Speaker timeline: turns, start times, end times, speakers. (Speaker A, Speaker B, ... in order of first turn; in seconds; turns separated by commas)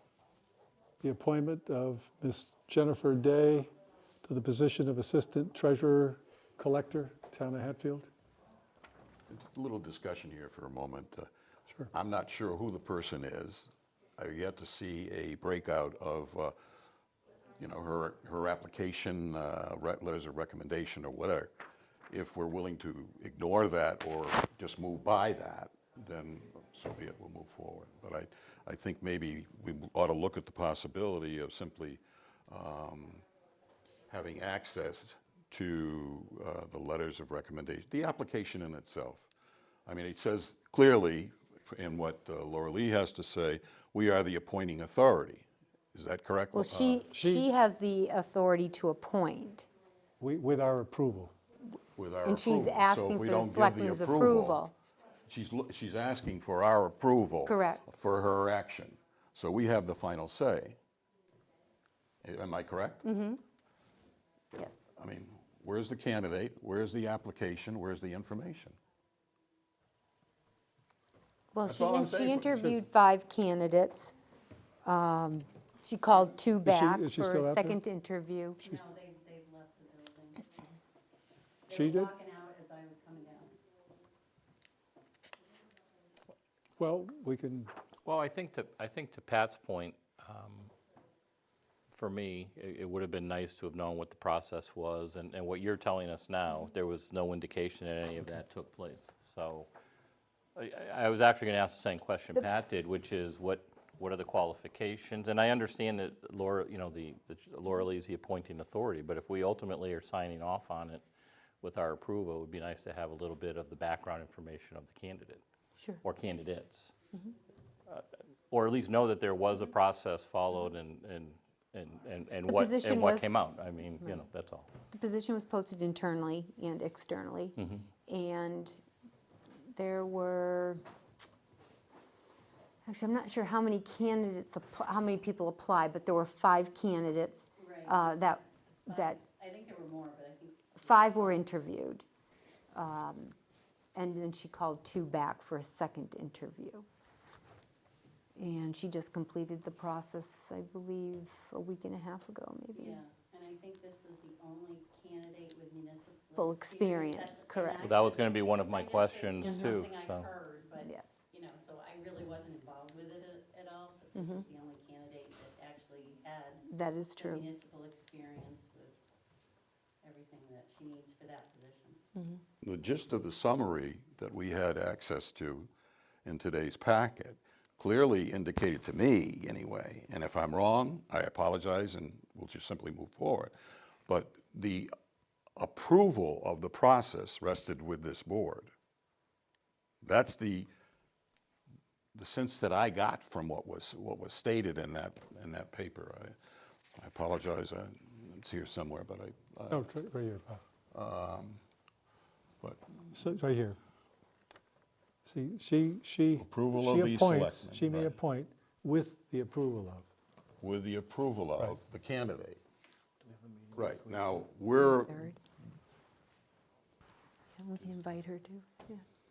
Speaker A: 1.0-3.7, Speaker A: 4.2-8.1, Speaker B: 9.3-11.3, Speaker B: 11.9-16.5, Speaker B: 17.6-21.5, Speaker B: 22.1-33.2, Speaker B: 34.1-39.3, Speaker B: 39.9-47.0, Speaker C: 46.5-49.7, Speaker A: 47.1-47.5, Speaker A: 50.2-51.3, Speaker B: 51.9-54.6, Speaker C: 52.2-54.7, Speaker B: 55.3-60.8, Speaker C: 57.5-57.8, Speaker B: 62.2-63.0, Speaker C: 63.0-63.4, Speaker C: 64.5-64.8, Speaker B: 65.0-68.8, Speaker C: 71.5-74.1, Speaker B: 71.7-72.8, Speaker C: 74.8-78.6, Speaker A: 76.6-77.8, Speaker D: 78.6-80.5, Speaker D: 81.7-83.6, Speaker A: 81.7-82.1, Speaker A: 86.8-87.7, Speaker E: 88.0-90.7, Speaker E: 91.9-99.7, Speaker E: 100.5-111.0, Speaker E: 111.6-115.4, Speaker E: 116.0-116.9, Speaker E: 117.9-124.7, Speaker C: 122.5-123.3, Speaker C: 124.9-128.8, Speaker E: 127.6-127.8, Speaker C: 129.7-130.8, Speaker C: 132.8-139.2, Speaker D: 137.6-138.1, Speaker D: 138.9-141.5, Speaker C: 140.8-142.0, Speaker C: 142.7-143.3, Speaker C: 143.9-146.8, Speaker C: 148.4-153.0, Speaker D: 152.7-166.6, Speaker C: 156.3-157.9, Speaker E: 157.8-160.3, Speaker C: 159.4-159.8, Speaker C: 160.8-161.2, Speaker C: 164.1-164.4, Speaker C: 166.7-167.5, Speaker D: 167.2-169.0, Speaker D: 170.0-172.0, Speaker C: 172.1-172.4, Speaker B: 172.6-175.7, Speaker B: 176.2-183.5, Speaker B: 184.1-184.9, Speaker B: 185.6-188.7, Speaker B: 190.0-190.7, Speaker B: 192.1-196.3, Speaker B: 196.9-199.9, Speaker A: 199.7-200.6, Speaker B: 200.9-201.6, Speaker B: 202.6-203.0, Speaker A: 203.1-203.8, Speaker A: 205.2-210.1, Speaker B: 206.4-208.1, Speaker B: 210.6-212.6, Speaker E: 213.2-213.8, Speaker B: 213.7-215.3, Speaker C: 214.9-215.4, Speaker C: 217.6-219.0